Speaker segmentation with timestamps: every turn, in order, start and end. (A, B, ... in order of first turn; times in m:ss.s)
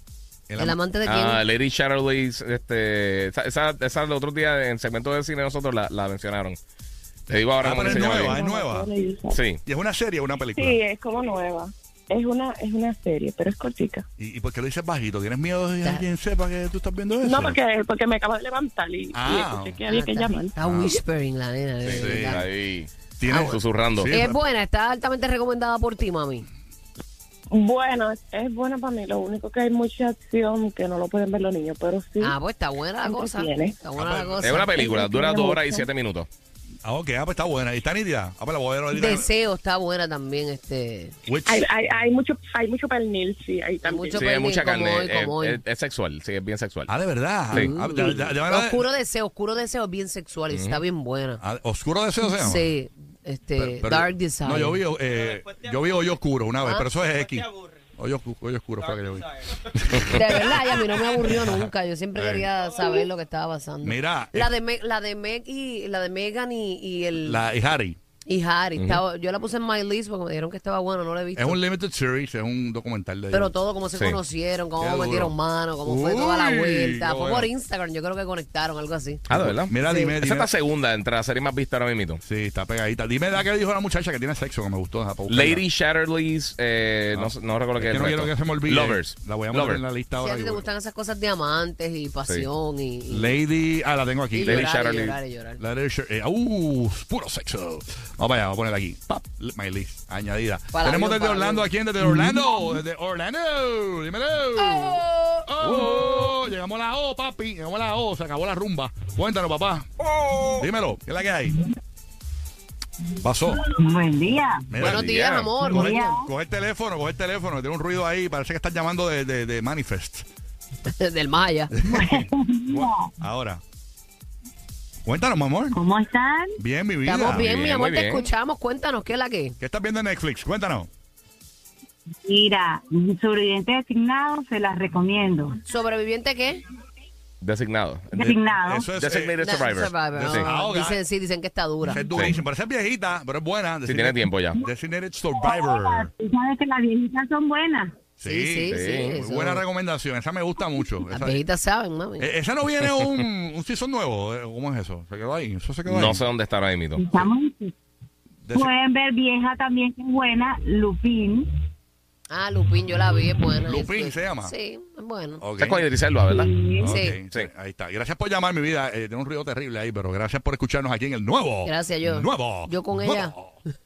0:00.5-0:00.8 A
0:00.6-0:01.4 B
0:01.0-0:06.6 C
0:07.3-0:08.4 C
0:07.6-0:08.9 A
0:07.8-0:09.4 D
0:09.3-0:09.6 C
0:09.6-0:10.8 A
0:10.6-0:14.0 D
0:14.2-0:17.6 A
0:17.2-0:20.5 D
0:19.1-0:19.8 A
0:19.9-0:22.4 B
0:20.6-0:21.0 A
0:21.8-0:24.1 C
0:21.9-0:22.4 A
0:23.2-0:24.4 A
0:23.3-0:26.4 B
0:27.5-0:32.4 D
0:32.2-0:35.9 B
0:33.0-0:33.8 D
0:34.0-0:34.6 A
0:34.4-0:36.3 C
0:35.0-0:35.5 D
0:36.8-0:39.3 A
0:38.9-0:41.2 B
0:41.2-0:41.7 A
0:41.4-0:44.2 D
0:43.8-0:45.6 B
0:44.1-0:46.9 C
0:46.9-0:48.8 A
0:47.5-0:51.4 B
0:50.5-0:50.8 C
0:51.4-0:52.7 A
0:52.2-0:54.8 B
0:53.6-1:02.5 A
1:00.0-1:07.4 B
1:03.8-1:04.5 A
1:07.2-1:08.0 A
1:08.2-1:11.6 B
1:11.3-1:13.5 A
1:13.3-1:19.2 B
1:13.9-1:14.2 C
1:14.8-1:17.5 A
1:19.3-1:20.5 A
1:19.3-1:22.2 C
1:19.8-1:20.1 B
1:22.2-1:25.6 A
1:25.3-1:29.8 C
1:27.1-1:30.6 A
1:30.2-1:33.4 B
1:33.1-1:34.7 A
1:34.3-1:35.6 B
1:34.4-1:35.2 C
1:35.6-1:49.9 A
1:40.7-1:42.3 B
1:44.6-1:45.6 B
1:50.5-1:51.6 A
1:53.2-1:53.7 A
1:53.7-1:54.6 E
1:54.7-2:00.2 A
1:54.7-1:56.2 B
1:54.8-1:55.4 C
1:55.6-1:56.2 E
2:01.0-2:01.7 B
2:01.8-2:03.6 A
2:01.9-2:03.1 E
2:05.0-2:05.8 A
2:05.7-2:06.6 E
2:06.6-2:07.6 A
2:07.0-2:09.6 B
2:07.3-2:08.3 C
2:09.6-2:10.9 A
2:12.2-2:15.6 E
2:15.7-2:16.6 B
2:17.4-2:18.2 C
2:18.1-2:18.9 E
2:18.2-2:19.6 A
2:18.9-2:20.5 C
2:19.4-2:22.1 B
2:20.1-2:21.0 A
2:21.8-2:26.1 A
2:22.1-2:22.4 C
2:23.8-2:24.6 C
2:25.4-2:27.9 E
2:28.2-2:31.4 A
2:28.2-2:29.6 B
2:28.7-2:29.2 C
2:31.1-2:32.3 B
2:32.2-2:36.2 A
2:35.9-2:37.2 C
2:37.0-2:37.7 E
2:38.4-2:38.7 A
2:38.5-2:41.5 E
2:42.3-2:45.4 B
2:43.6-2:44.5 A
2:45.4-2:45.8 A
2:45.6-2:46.5 C
2:46.3-2:46.9 E
2:46.8-2:53.6 A
2:46.8-2:47.2 B
2:51.6-2:53.3 B